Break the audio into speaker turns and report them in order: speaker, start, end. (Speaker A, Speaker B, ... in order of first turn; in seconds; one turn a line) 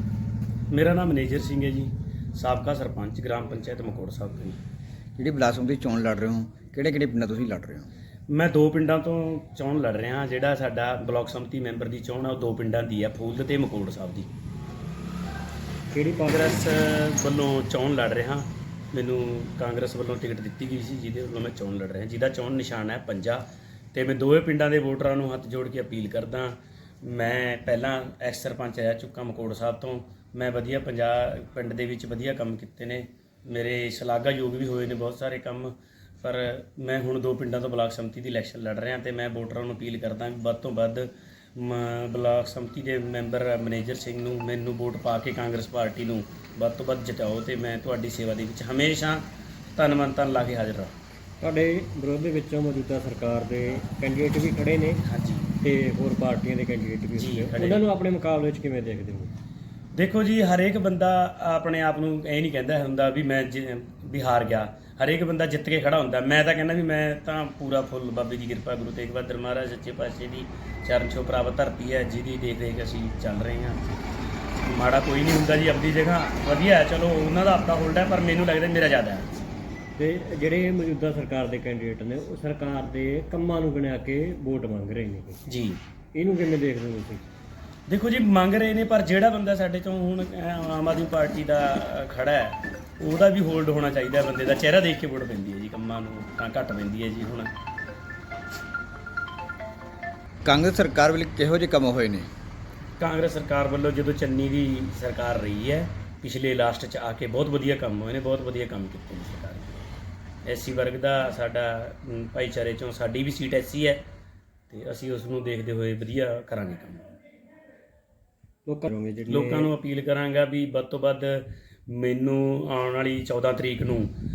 Speaker A: 0.7-4.6
Speaker B: 5.2-7.9
Speaker A: 8.3-14.3
Speaker C: 15.9-16.7
Speaker A: 16.3-50.9
Speaker C: 51.4-55.0
Speaker A: 55.1-55.5
Speaker C: 55.6-59.3
Speaker A: 57.2-57.8
Speaker A: 60.0-74.0
Speaker A: 74.6-79.4
Speaker C: 80.0-85.4
Speaker A: 85.5-85.8
Speaker C: 86.2-87.2
Speaker A: 87.9-97.5
Speaker B: 100.5-102.3
Speaker A: 103.0-109.8
Speaker A: 110.5-114.0
Speaker A: 114.7-117.1
Speaker C: 118.7-119.7
Speaker A: 119.3-124.1